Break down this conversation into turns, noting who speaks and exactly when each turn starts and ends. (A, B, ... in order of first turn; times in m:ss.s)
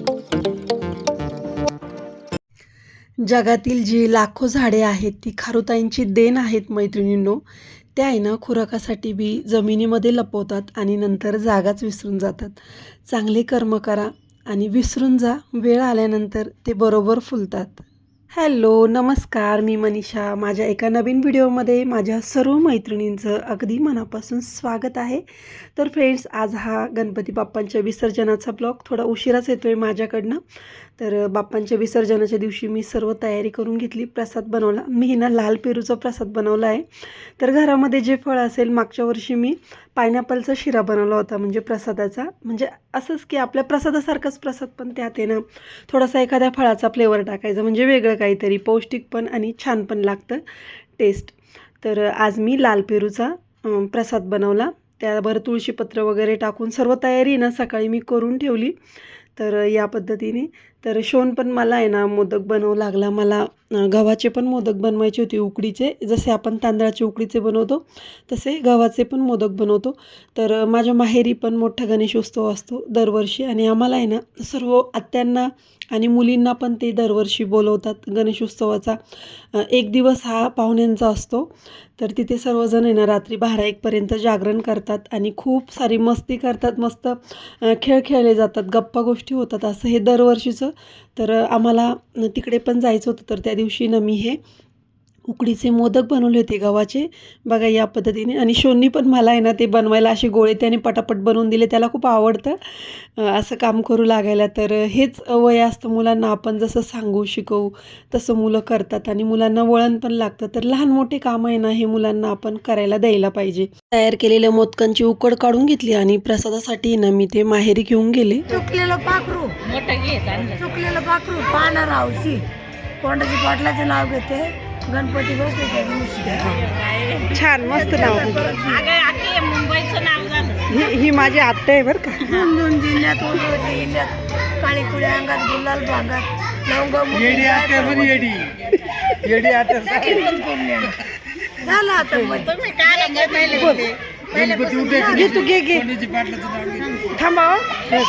0:03.2-0:07.4 A
0:07.9-0:30.4 A
0:31.0-0:50.4 A
0:51.0-0:58.8 A
0:59.4-1:34.4 A
1:35.2-1:58.5 A
1:58.5-1:59.6 B
1:59.6-2:00.6 C
2:00.6-2:02.4 B
2:03.0-2:06.6 B
2:06.4-2:07.5 C
2:07.3-2:08.5 A
2:07.6-2:08.9 B
2:08.6-2:10.8 C
2:10.7-2:12.2 A
2:12.2-2:18.3 B
2:17.3-2:18.6 D
2:18.9-2:22.7 B
2:19.2-2:20.0 D
2:22.4-2:24.5 C
2:24.4-2:25.9 B
2:24.5-2:27.1 D
2:25.3-2:25.8 A
2:26.8-2:27.9 B